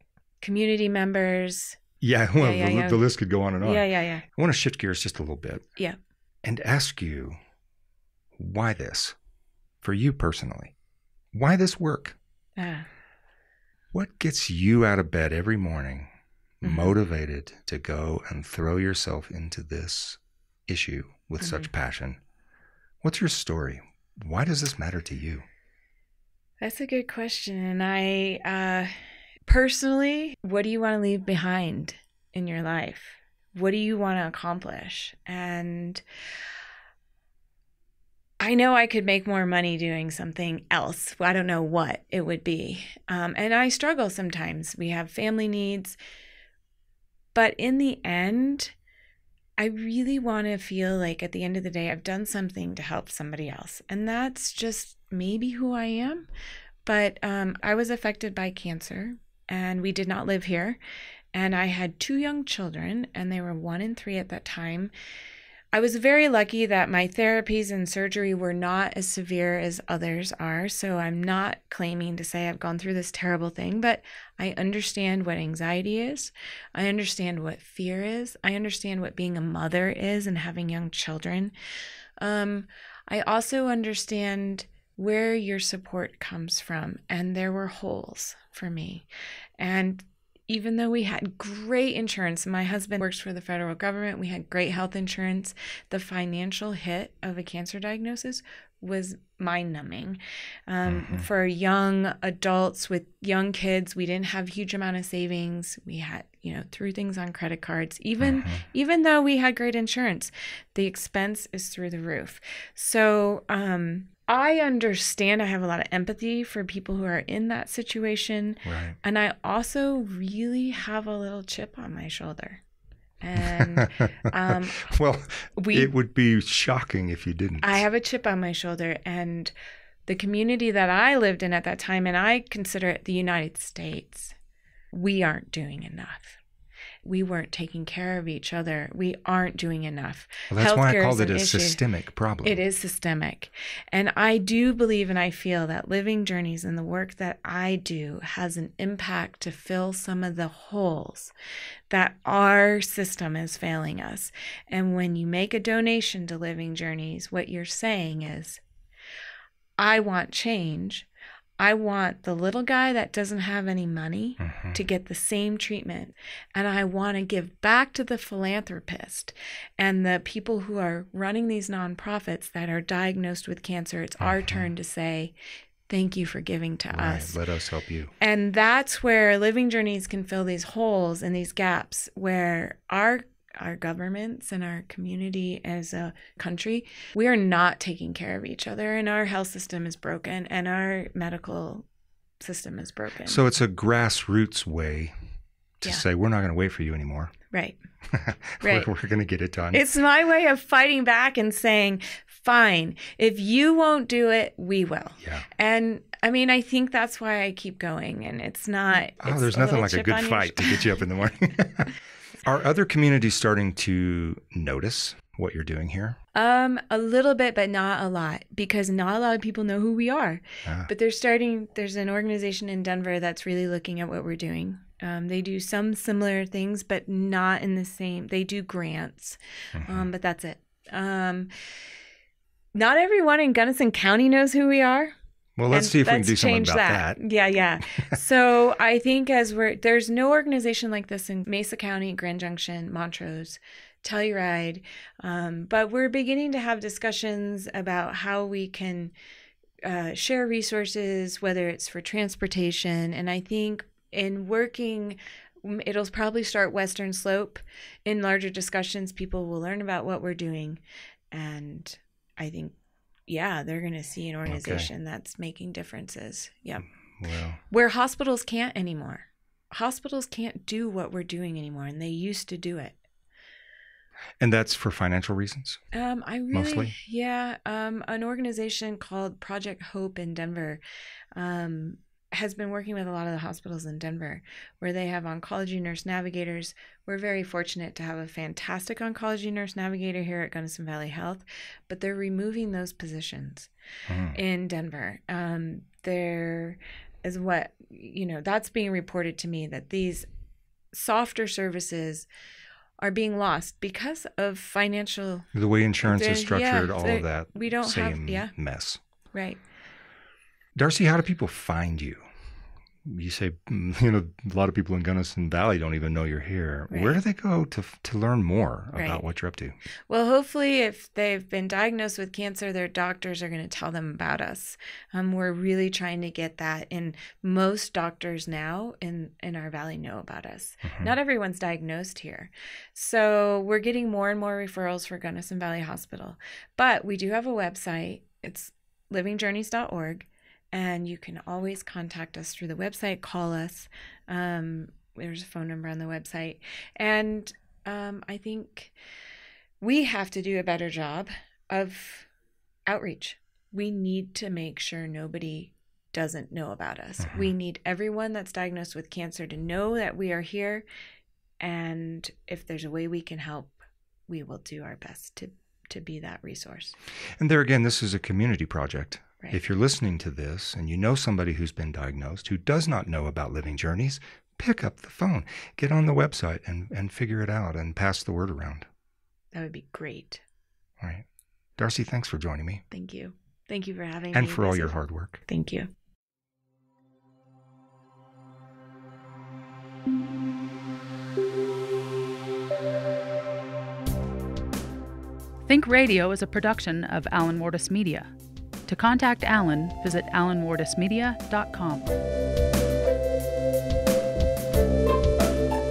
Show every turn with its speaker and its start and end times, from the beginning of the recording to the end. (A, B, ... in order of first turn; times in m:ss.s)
0:00.4-0:01.8 A
0:02.0-0:05.6 B
0:02.4-0:03.0 A
0:03.6-0:04.2 A
0:06.4-0:07.4 B
0:08.4-0:09.2 B
0:09.8-0:10.7 B
0:11.3-0:12.2 B
0:12.6-0:12.9 A
0:13.9-0:16.1 B
0:16.6-0:22.2 B
0:16.6-0:17.0 A
0:21.4-0:21.7 A
0:23.0-0:25.4 B
0:26.6-0:28.9 A
0:29.4-0:36.0 A
0:38.4-0:46.0 A
0:47.3-0:48.7 A
0:49.6-0:56.3 A
0:56.8-1:00.8 A
1:01.3-1:04.9 A
1:05.7-1:21.5 A
1:22.2-2:02.6 A
1:40.9-1:41.3 B
1:48.2-1:48.6 B
1:58.6-1:59.0 B
2:03.2-2:04.9 A
2:03.4-2:07.7 B
2:05.6-2:05.9 A
2:07.6-2:09.5 A
2:10.0-2:14.4 A
2:14.9-2:16.4 A
2:17.0-2:21.8 A
2:20.5-2:22.6 B
2:22.4-2:31.3 A
2:31.9-2:38.6 A
2:39.8-2:41.1 A
2:41.6-2:55.3 A
2:44.4-2:44.8 B
2:54.2-2:54.7 B
2:55.9-2:57.4 A
2:56.9-2:58.1 B
2:58.2-3:11.8 A
3:12.4-3:13.4 A
3:13.2-3:15.1 B
3:15.8-3:17.3 B
3:17.5-3:17.8 A
3:18.1-3:19.8 B
3:18.6-3:18.9 A
3:19.7-3:31.0 A
3:25.2-3:25.5 B
3:29.2-3:36.2 B
3:36.3-3:51.5 A
3:40.6-3:40.9 B
3:49.7-3:50.1 B
3:52.7-3:55.2 A
3:55.6-3:57.2 B
3:55.7-4:09.1 A
4:09.8-4:22.7 A
4:23.3-4:26.8 A
4:24.4-4:24.9 B
4:27.2-4:27.6 B
4:27.7-4:33.0 A
4:34.4-4:35.8 B
4:35.9-4:40.8 A
4:36.5-4:36.9 B
4:41.3-4:53.7 A
4:54.1-4:54.4 B
4:54.3-5:00.2 A
5:00.9-5:02.3 A
5:03.0-5:05.5 A
5:05.5-5:09.0 B
5:06.0-5:08.5 A
5:09.3-5:09.6 A
5:10.8-5:12.2 B
5:13.0-5:19.8 B
5:16.9-5:17.2 A
5:18.9-5:19.2 A
5:20.1-5:48.9 A
5:30.8-5:31.1 B
5:49.8-5:52.3 A
5:52.8-6:00.8 A
5:57.2-5:57.5 B
6:01.6-6:07.0 A
6:07.4-6:18.9 B
6:19.5-6:20.4 A
6:21.8-6:22.8 B
6:22.9-6:24.9 A
6:24.3-6:25.4 B
6:25.5-6:25.9 A
6:35.7-6:38.3 C
6:38.9-6:42.1 C